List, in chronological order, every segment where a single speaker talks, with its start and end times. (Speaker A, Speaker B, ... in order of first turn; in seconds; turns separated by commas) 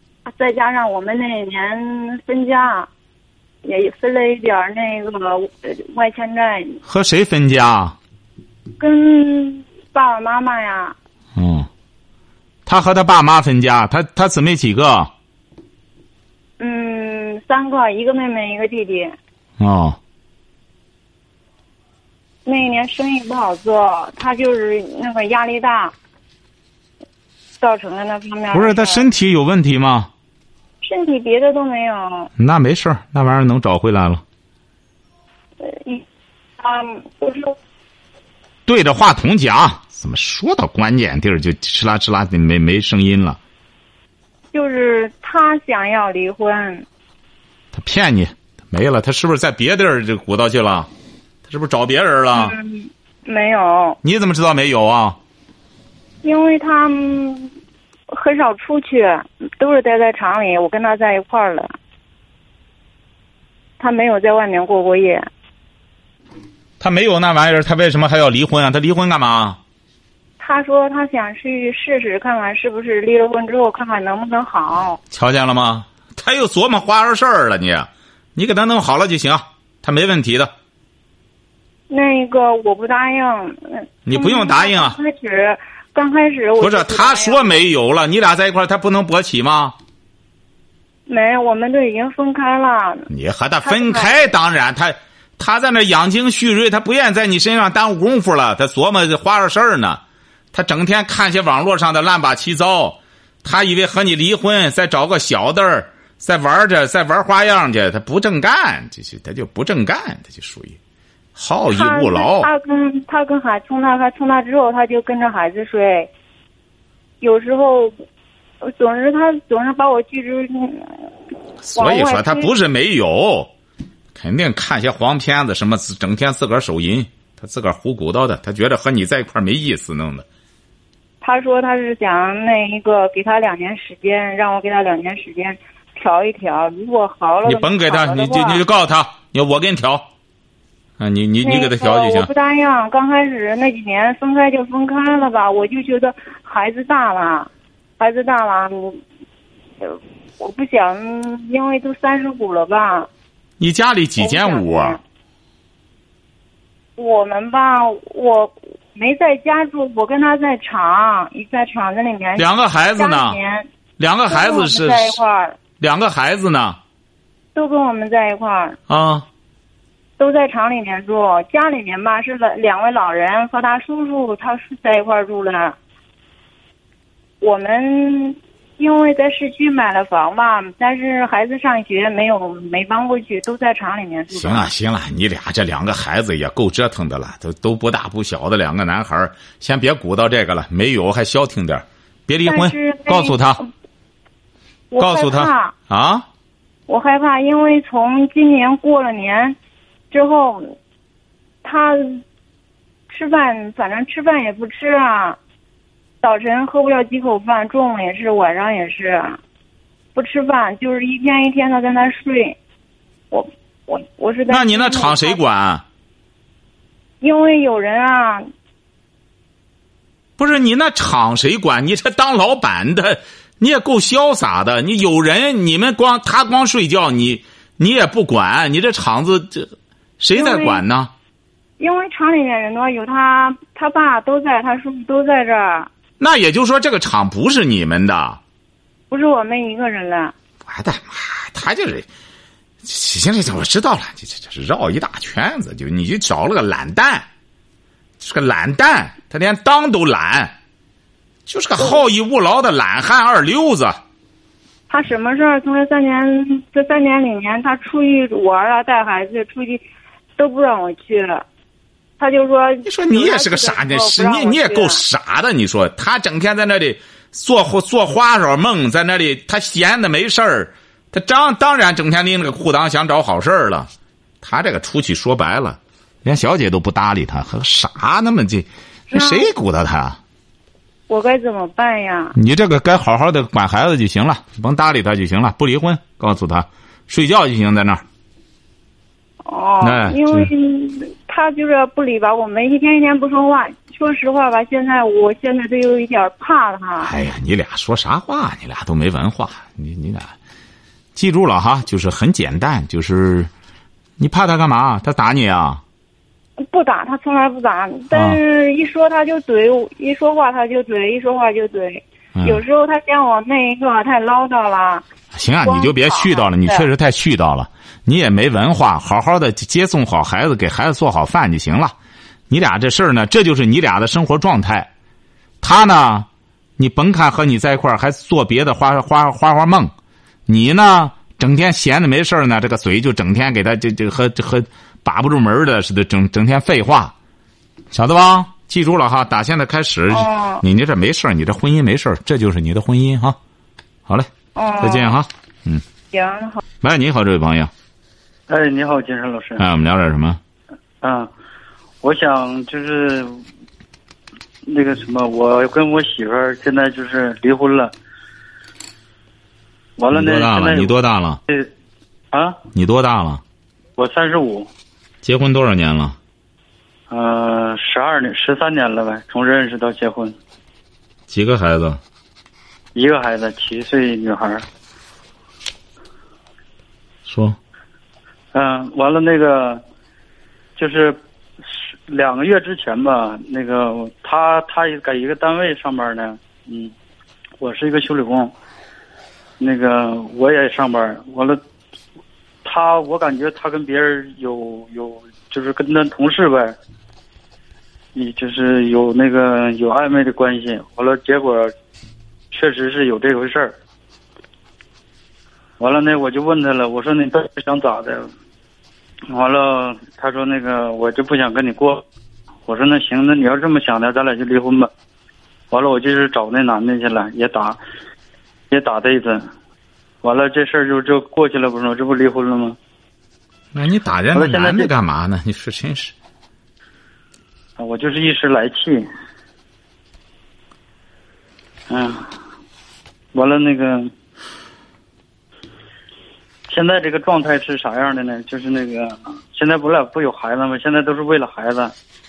Speaker A: 0.2-2.9, Speaker A: 3.6-6.8, Speaker B: 6.8-8.0, Speaker A: 8.8-10.9, Speaker B: 11.3-11.7, Speaker B: 12.7-15.1, Speaker A: 16.6-19.2, Speaker B: 19.6-20.0, Speaker A: 22.4-25.9, Speaker A: 27.6-29.1, Speaker B: 28.5-30.1, Speaker A: 30.8-32.3, Speaker B: 32.4-34.2, Speaker A: 35.6-36.0, Speaker A: 36.6-37.5, Speaker B: 38.6-43.4, Speaker A: 44.5-46.9, Speaker B: 47.7-50.9, Speaker B: 51.5-52.5, Speaker A: 52.3-54.0, Speaker B: 54.0-55.2, Speaker A: 56.2-57.5, Speaker A: 58.1-61.7, Speaker A: 63.8-65.3, Speaker B: 66.8-69.6, Speaker A: 70.4-75.0, Speaker B: 75.1-80.5, Speaker A: 81.9-87.5, Speaker B: 84.0-85.0, Speaker B: 86.6-89.8, Speaker A: 91.1-93.1, Speaker B: 93.1-100.0, Speaker A: 93.6-94.2, Speaker B: 100.5-110.8, Speaker B: 111.3-112.5, Speaker A: 111.7-116.1, Speaker A: 117.2-117.9, Speaker A: 118.6-121.1, Speaker B: 121.6-123.5, Speaker A: 121.8-122.5, Speaker B: 124.1-130.2, Speaker A: 131.2-138.6, Speaker B: 137.4-140.1, Speaker B: 141.0-142.3, Speaker A: 141.4-149.0, Speaker A: 149.8-153.1, Speaker B: 153.6-155.0, Speaker A: 154.2-155.0, Speaker A: 157.0-163.7, Speaker B: 162.4-163.4, Speaker B: 164.0-165.2, Speaker A: 164.3-165.6, Speaker B: 165.8-166.8, Speaker A: 167.5-168.8, Speaker B: 168.9-169.2, Speaker A: 170.2-175.8, Speaker A: 177.4-184.7, Speaker B: 184.3-193.6, Speaker A: 192.4-193.7, Speaker A: 194.9-195.7, Speaker B: 195.0-196.2, Speaker A: 196.9-199.6, Speaker A: 200.1-200.7, Speaker A: 201.6-202.2, Speaker A: 203.1-205.4, Speaker A: 206.2-209.4, Speaker A: 210.1-212.6, Speaker A: 213.3-215.4, Speaker B: 214.5-215.8, Speaker A: 217.2-218.5, Speaker B: 220.4-231.1, Speaker A: 230.3-230.8, Speaker A: 231.8-235.9, Speaker B: 236.2-238.4, Speaker A: 239.1-240.3, Speaker B: 240.6-242.1, Speaker B: 242.8-247.3, Speaker B: 248.2-250.5, Speaker B: 251.5-254.0, Speaker A: 254.9-259.8, Speaker A: 260.4-261.4, Speaker A: 262.2-265.0, Speaker B: 262.9-273.9, Speaker B: 274.4-280.2, Speaker A: 279.1-279.5, Speaker A: 281.1-282.3, Speaker B: 282.3-288.0, Speaker A: 289.4-297.1, Speaker B: 289.8-290.5, Speaker B: 297.0-300.3, Speaker B: 301.1-303.5, Speaker B: 304.2-305.8, Speaker A: 306.7-315.0, Speaker B: 308.1-308.4, Speaker B: 312.4-312.6, Speaker B: 315.3-321.9, Speaker A: 315.6-316.9, Speaker B: 322.5-324.9, Speaker B: 325.6-326.3, Speaker B: 326.8-329.9, Speaker B: 330.5-337.1, Speaker B: 337.9-343.4, Speaker A: 340.1-340.6, Speaker A: 344.6-345.2, Speaker B: 344.8-345.8, Speaker A: 346.1-346.6, Speaker B: 346.8-347.7, Speaker C: 348.5-349.6, Speaker B: 349.6-350.4, Speaker C: 351.0-351.3, Speaker C: 352.0-353.4, Speaker C: 354.7-357.9, Speaker C: 360.0-360.9, Speaker B: 360.1-361.4, Speaker C: 362.3-362.6, Speaker B: 362.7-363.4, Speaker C: 364.0-364.7, Speaker B: 365.2-366.2, Speaker C: 367.1-370.4, Speaker B: 371.3-372.0, Speaker C: 372.9-374.6, Speaker B: 377.2-377.6, Speaker C: 378.5-379.8, Speaker C: 380.8-386.9, Speaker C: 387.6-388.5, Speaker C: 389.6-391.6, Speaker C: 392.6-396.8, Speaker C: 398.1-401.7, Speaker C: 402.5-403.7, Speaker C: 405.8-408.3, Speaker C: 409.3-412.0, Speaker C: 412.7-414.9, Speaker C: 415.7-417.8, Speaker C: 418.7-419.5, Speaker C: 420.2-422.8, Speaker B: 423.7-426.1, Speaker C: 424.3-424.9, Speaker C: 427.8-429.1, Speaker C: 431.9-432.3, Speaker C: 433.3-434.1, Speaker C: 436.7-441.9